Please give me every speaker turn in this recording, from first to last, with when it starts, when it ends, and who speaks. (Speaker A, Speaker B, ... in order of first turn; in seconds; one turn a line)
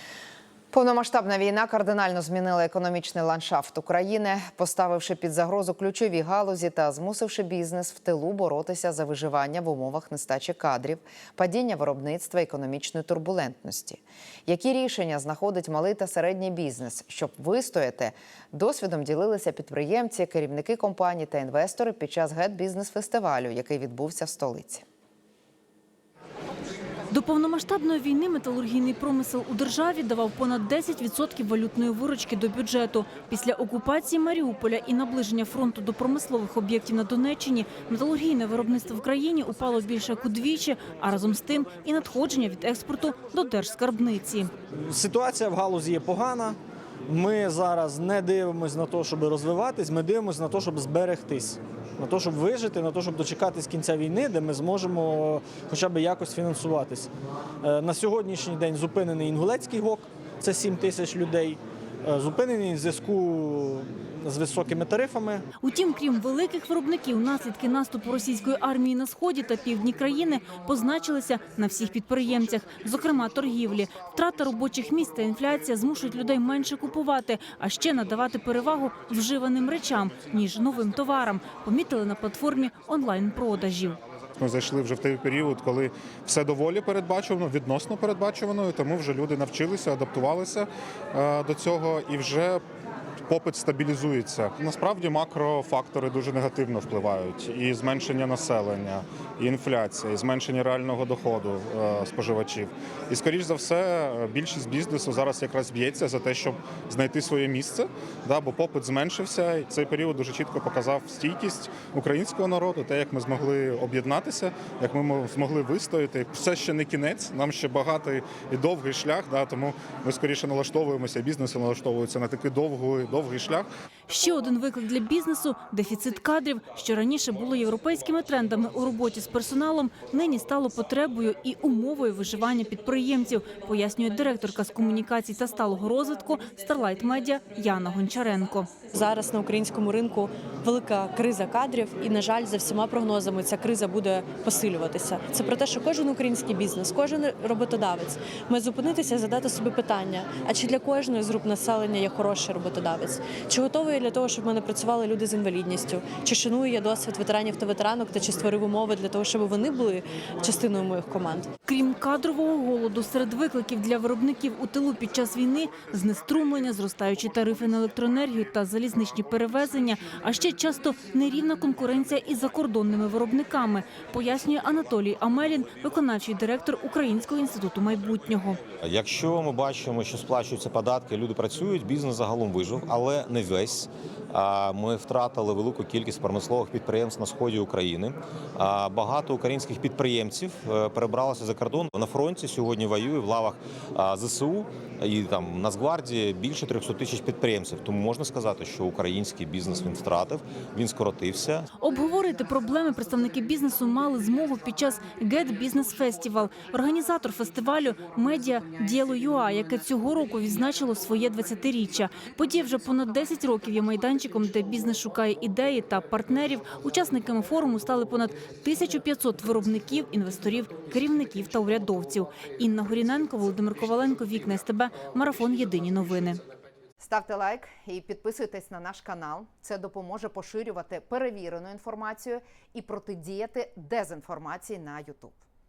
Speaker A: 0.7-24.9
Speaker B: 27.1-44.5
Speaker C: 44.9-46.6
Speaker C: 47.1-57.1
Speaker C: 57.6-65.4
Speaker B: 65.6-84.0
Speaker D: 84.4-92.6
Speaker D: 93.3-123.7
Speaker B: 124.1-138.7
Speaker E: 138.9-161.5
Speaker B: 161.7-178.6
Speaker F: 178.8-201.7
Speaker B: 201.8-226.4
Speaker A: 227.0-235.4